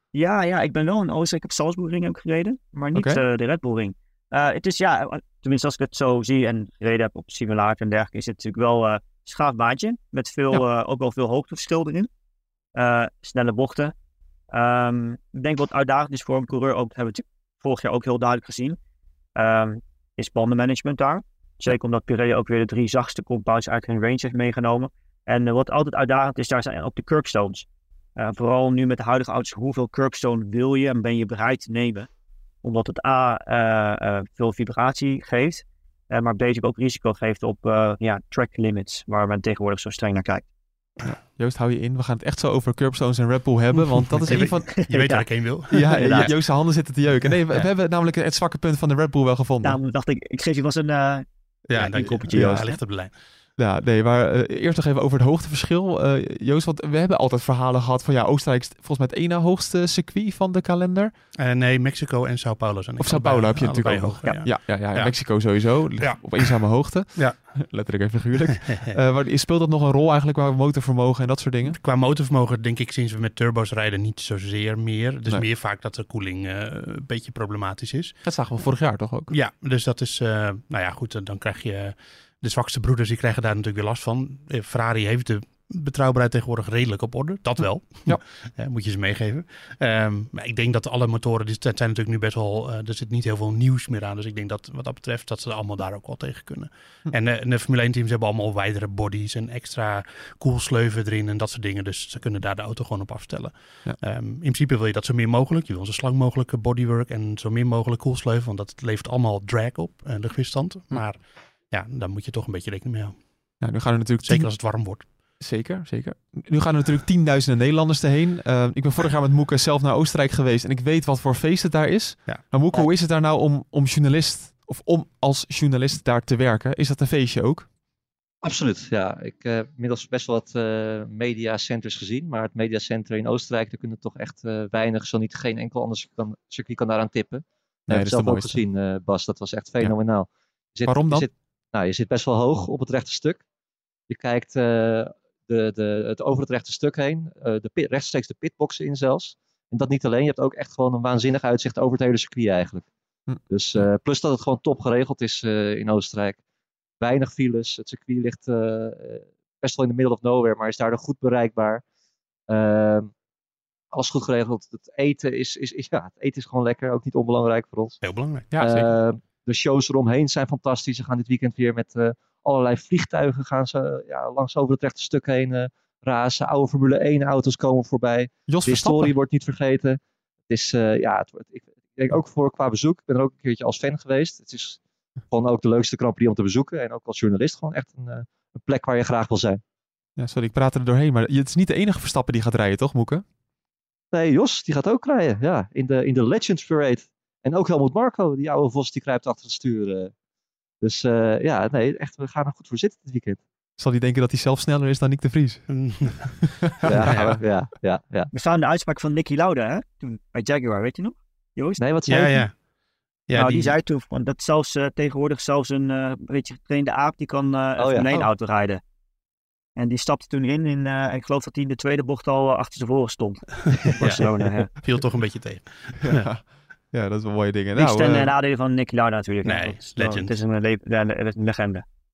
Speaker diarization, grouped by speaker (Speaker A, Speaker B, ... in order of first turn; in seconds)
Speaker A: 0.1-12.1, 12.8-13.9, 14.5-18.8, 19.4-32.1, 32.6-40.5, 44.3-46.3, 49.6-51.2, 51.8-52.8, 208.3-211.8, 213.3-218.8, 219.8-224.7, 227.8-231.8
Speaker B: 2.9-3.2, 41.0-44.9, 45.7-49.8, 52.3-52.8, 53.6-61.1, 63.0-71.8, 78.2-79.3, 113.6-114.5, 115.4-127.7, 137.9-138.6, 140.9-141.3, 153.3-153.8, 168.5-169.0, 178.5-179.2, 190.2-193.2, 203.8-207.4, 226.0-228.3
Speaker C: 44.2-46.3, 51.7-53.2, 61.4-67.6, 68.6-68.9, 71.7-78.2, 79.3-111.2, 111.7-113.2, 114.2-115.1, 168.0-168.5, 205.7-207.4, 212.1-212.6, 213.3-213.8, 223.8-226.2, 229.4-230.3
Speaker D: 128.4-143.4, 144.1-152.9, 153.5-156.4, 157.0-161.8, 162.5-163.1, 163.9-168.0, 168.6-180.0, 180.5-184.8, 185.3-189.6, 194.1-200.1, 200.8-203.4, 206.8-208.3, 211.8-212.4, 217.8-218.1